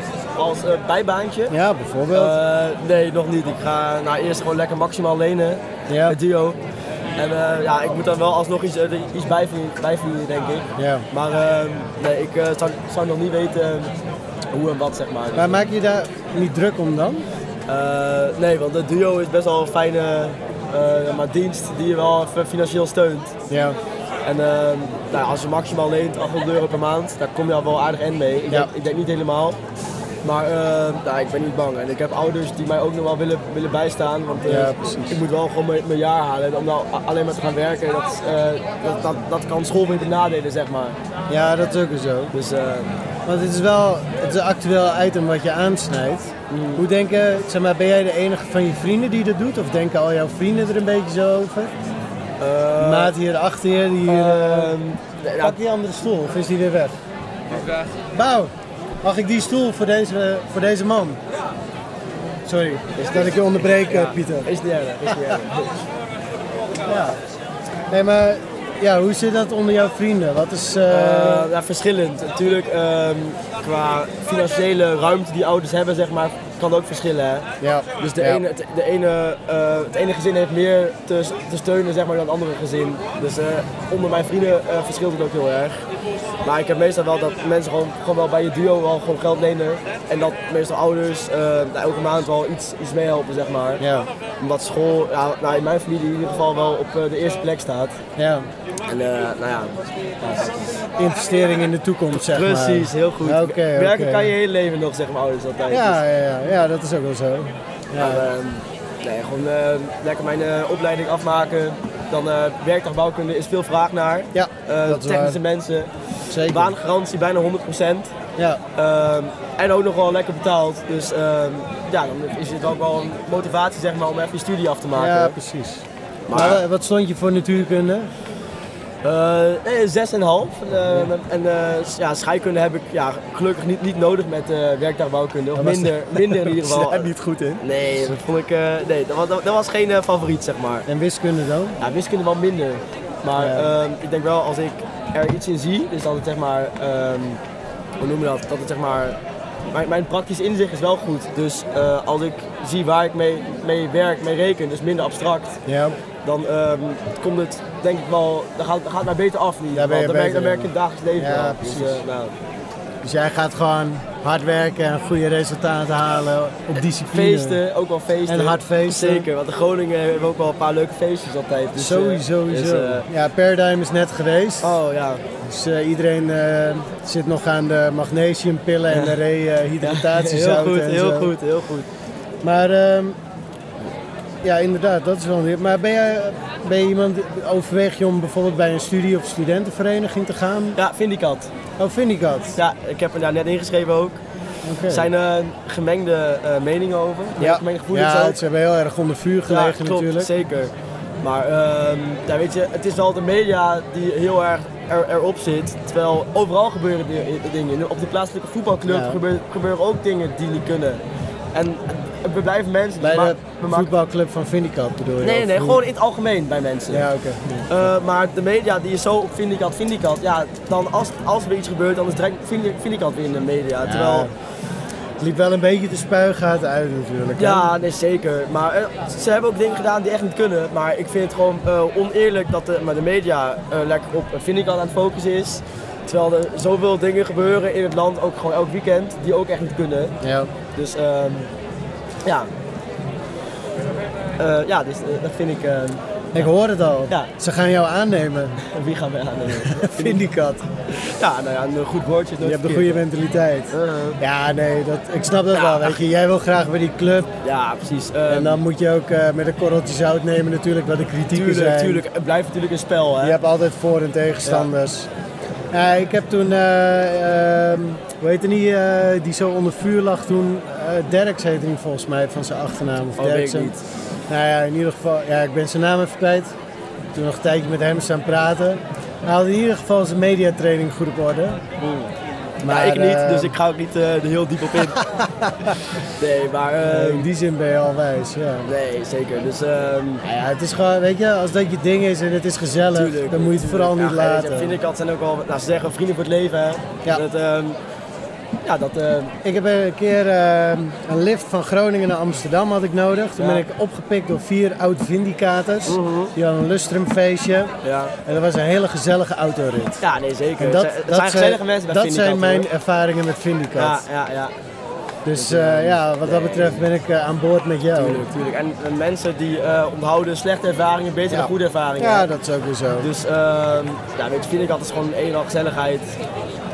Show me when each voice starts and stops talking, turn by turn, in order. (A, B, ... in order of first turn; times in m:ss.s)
0:00.4-0:01.5 A
0:01.5-0:02.4 B
0:02.1-0:06.6 A
0:05.9-0:06.2 B
0:07.2-0:13.9 A
0:10.8-0:11.1 B
0:14.5-0:15.6 A
0:15.4-0:17.3 B
0:17.7-0:23.4 A
0:23.5-0:23.8 B
0:24.2-0:29.6 A
0:30.2-0:41.0 A
0:34.5-0:35.2 B
0:41.3-0:42.3 B
0:42.3-0:42.9 A
0:43.3-0:51.7 B
0:46.5-0:46.8 A
0:52.4-0:53.2 A
0:52.8-0:54.7 B
0:54.0-0:55.6 A
0:55.4-0:57.0 B
0:58.1-0:58.5 B
0:59.0-1:01.2 B
1:02.5-1:04.5 B
1:03.0-1:05.7 A
1:06.9-1:07.2 B
1:07.9-1:11.5 B
1:10.9-1:17.5 A
1:17.6-1:18.4 B
1:18.0-1:25.8 A
1:26.4-1:33.8 A
1:33.8-1:34.1 B
1:34.4-1:38.0 A
1:38.2-1:38.5 B
1:38.9-1:40.7 A
1:41.0-1:44.3 B
1:42.1-1:46.0 A
1:45.7-1:48.2 B
1:48.0-1:55.9 A
1:54.3-1:55.4 B
1:56.3-1:56.7 B
1:56.5-1:58.1 A
1:58.8-2:05.4 A
2:05.0-2:08.1 B
2:06.3-2:06.6 A
2:09.0-2:20.9 A
2:15.6-2:17.6 B
2:20.9-2:21.8 B
2:21.8-2:27.4 A
2:23.4-2:23.7 B
2:28.0-2:29.2 A
2:29.7-2:35.6 A
2:35.7-2:36.0 B
2:36.2-2:42.3 A
2:39.7-2:42.0 B
2:43.0-2:47.6 B
2:47.1-2:53.0 A
2:48.3-2:49.3 B
2:51.8-2:54.8 B
2:54.6-2:55.2 A
2:55.4-3:01.3 B
2:58.9-2:59.2 A
2:59.8-3:01.9 A
3:02.4-3:03.2 B
3:04.4-3:10.8 B
3:10.8-3:11.5 A
3:11.8-3:12.6 B
3:12.6-3:14.2 A
3:14.6-3:15.1 B
3:14.9-3:18.4 A
3:17.4-3:20.3 B
3:19.5-3:31.0 A
3:28.9-3:29.2 B
3:31.5-3:33.9 A
3:33.0-3:35.8 B
3:35.2-3:37.1 A
3:36.9-3:37.7 B
3:37.7-3:44.3 A
3:43.8-3:44.3 B
3:45.2-3:47.7 B
3:47.4-4:00.1 A
4:00.2-4:00.5 B
4:00.8-4:01.5 A
4:04.4-4:06.5 A
4:06.4-4:08.6 B
4:08.6-4:10.2 A
4:09.6-4:10.6 B
4:10.9-4:13.0 A
4:12.4-4:17.3 B
4:13.7-4:14.2 A
4:15.5-4:16.0 A
4:17.4-4:18.6 A
4:18.3-4:22.0 B
4:21.3-4:23.4 A
4:23.2-4:25.1 B
4:25.7-4:33.7 B
4:33.2-4:33.8 A
4:34.3-4:36.5 B
4:37.2-4:41.6 B
4:41.8-4:42.1 A
4:42.6-4:43.5 B
4:42.7-4:45.0 A
4:45.2-4:45.7 B
4:46.2-4:47.3 A
4:46.8-4:48.7 B
4:48.7-4:50.2 A
4:50.2-4:54.8 B
4:52.9-4:57.8 A
4:58.6-4:59.3 A
4:59.4-5:07.7 B
5:03.4-5:03.6 A
5:05.9-5:06.3 A
5:07.8-5:08.1 A
5:08.2-5:10.0 B
5:10.0-5:12.7 A
5:10.6-5:14.0 B
5:13.8-5:14.5 A
5:15.3-5:18.2 B
5:15.3-5:16.9 A
5:17.9-5:22.3 A
5:21.3-5:23.1 B
5:23.0-5:26.1 A